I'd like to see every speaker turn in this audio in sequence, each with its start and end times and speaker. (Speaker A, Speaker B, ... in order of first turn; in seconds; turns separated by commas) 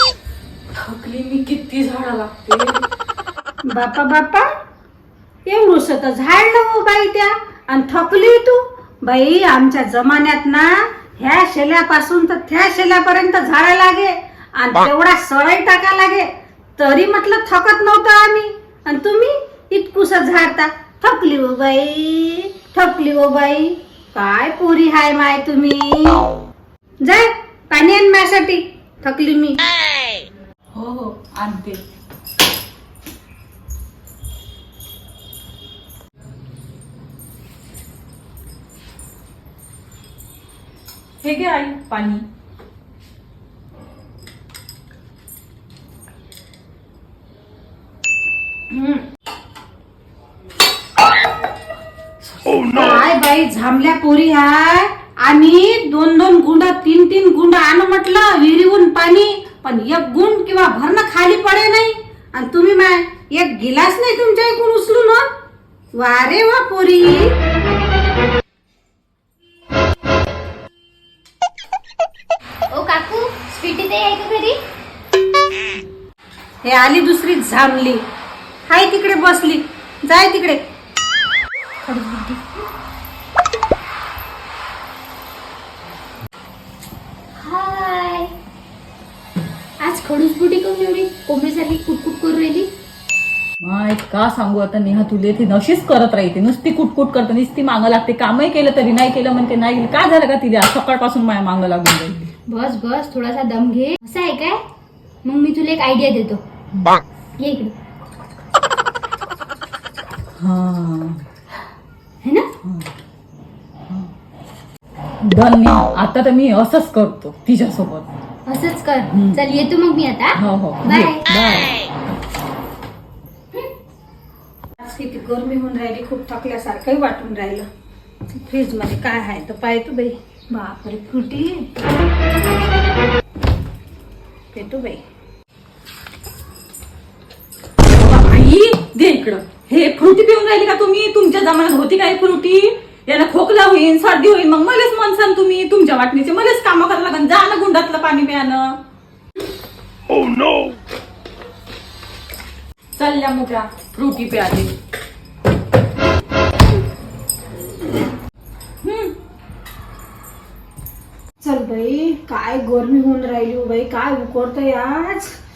Speaker A: 0.7-2.8, Speaker B: 3.7-4.5, Speaker B: 5.5-26.3, Speaker B: 27.0-29.6, Speaker A: 30.8-31.8, Speaker A: 41.2-42.2, Speaker A: 48.7-49.0, Speaker A: 52.4-52.7, Speaker B: 52.7-65.3, Speaker B: 65.9-67.3, Speaker C: 72.7-74.6, Speaker B: 76.6-78.0, Speaker B: 78.7-80.6, Speaker C: 81.8-82.6, Speaker C: 87.4-88.3, Speaker C: 89.8-92.7, Speaker A: 93.6-102.3, Speaker C: 102.5-104.6, Speaker C: 105.2-106.4, Speaker C: 107.4-107.7, Speaker A: 110.4-111.2, Speaker C: 112.2-112.5, Speaker A: 115.2-118.1, Speaker C: 118.5-121.2, Speaker A: 119.1-119.4, Speaker A: 120.4-121.7, Speaker B: 124.8-127.7, Speaker B: 128.3-131.7, Speaker B: 134.5-135.0, Speaker A: 137.9-148.8, Speaker A: 153.0-154.7, Speaker A: 158.8-159.1, Speaker B: 161.4-165.4